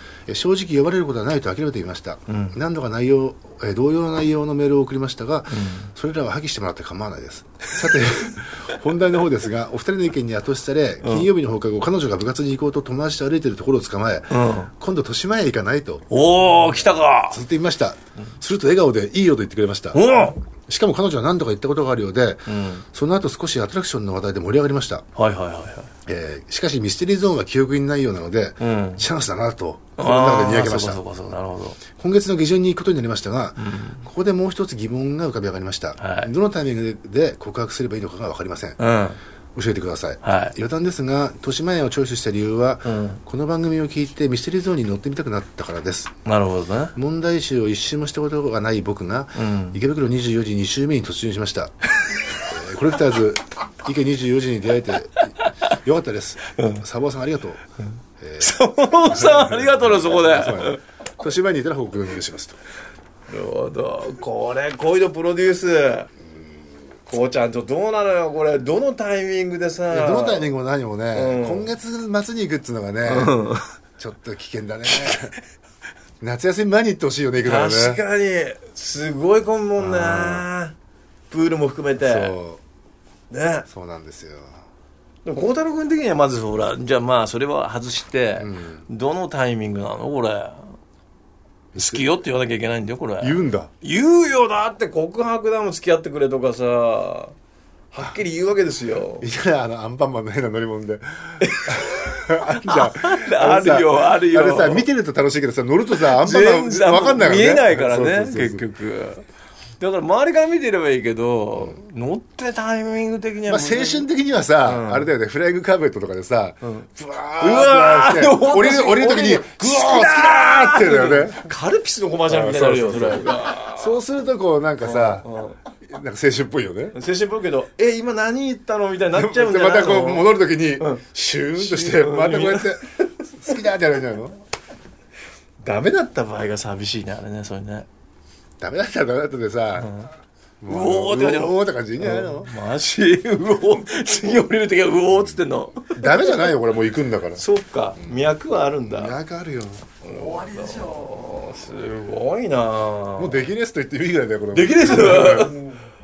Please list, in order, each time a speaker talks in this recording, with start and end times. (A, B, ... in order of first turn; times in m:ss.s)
0:00.3-0:16.0 A
0:02.3-0:02.6 B
0:05.5-0:05.9 B
0:11.0-0:11.3 B
0:14.3-0:14.7 B
0:16.1-0:17.4 B
0:17.3-0:20.0 A
0:19.9-0:20.4 B
0:20.6-0:25.0 A
0:22.5-0:22.8 B
0:25.2-0:25.9 B
0:26.0-0:31.0 A
0:28.6-0:29.0 B
0:30.0-0:31.8 B
0:31.9-0:38.8 A
0:33.6-0:34.0 B
0:36.0-0:36.3 B
0:38.8-0:39.2 B
0:39.5-0:46.1 A
0:40.2-0:40.5 B
0:42.8-0:43.2 B
0:46.2-0:46.9 B
0:46.9-0:51.7 A
0:49.4-0:49.8 B
0:52.4-0:57.6 A
0:56.5-0:56.8 B
0:58.2-1:02.6 A
0:58.4-1:00.8 B
1:03.3-1:06.1 B
1:07.1-1:10.5 B
1:09.9-1:13.3 A
1:11.1-1:11.7 B
1:13.0-1:13.7 B
1:14.0-1:15.3 A
1:14.8-1:15.4 B
1:16.2-1:18.0 A
1:17.4-1:20.7 B
1:19.8-1:20.5 A
1:21.3-1:22.3 B
1:22.0-1:22.6 A
1:23.3-1:23.6 B
1:23.7-1:24.6 A
1:25.2-1:30.8 B
1:28.4-1:28.8 A
1:31.7-1:32.1 A
1:31.8-1:37.3 B
1:33.2-1:33.7 A
1:37.9-1:39.3 B
1:39.2-1:48.6 A
1:41.4-1:44.9 B
1:45.9-1:49.2 B
1:49.8-1:54.1 B
1:53.5-2:01.5 A
1:54.6-1:55.1 B
1:56.6-1:56.9 B
1:57.4-2:04.0 B
2:02.3-2:05.3 A
2:04.8-2:05.6 B
2:05.8-2:07.0 A
2:06.9-2:11.0 B
2:09.1-2:14.4 A
2:11.6-2:13.2 B
2:15.6-2:17.9 B
2:18.6-2:19.9 A
2:19.8-2:20.1 B
2:20.6-2:22.5 A
2:20.7-2:26.5 B
2:25.9-2:27.4 A
2:27.4-2:29.2 B
2:28.0-2:28.3 A
2:28.8-2:29.8 A
2:30.0-2:33.5 B
2:33.2-2:35.6 A
2:34.5-2:35.7 B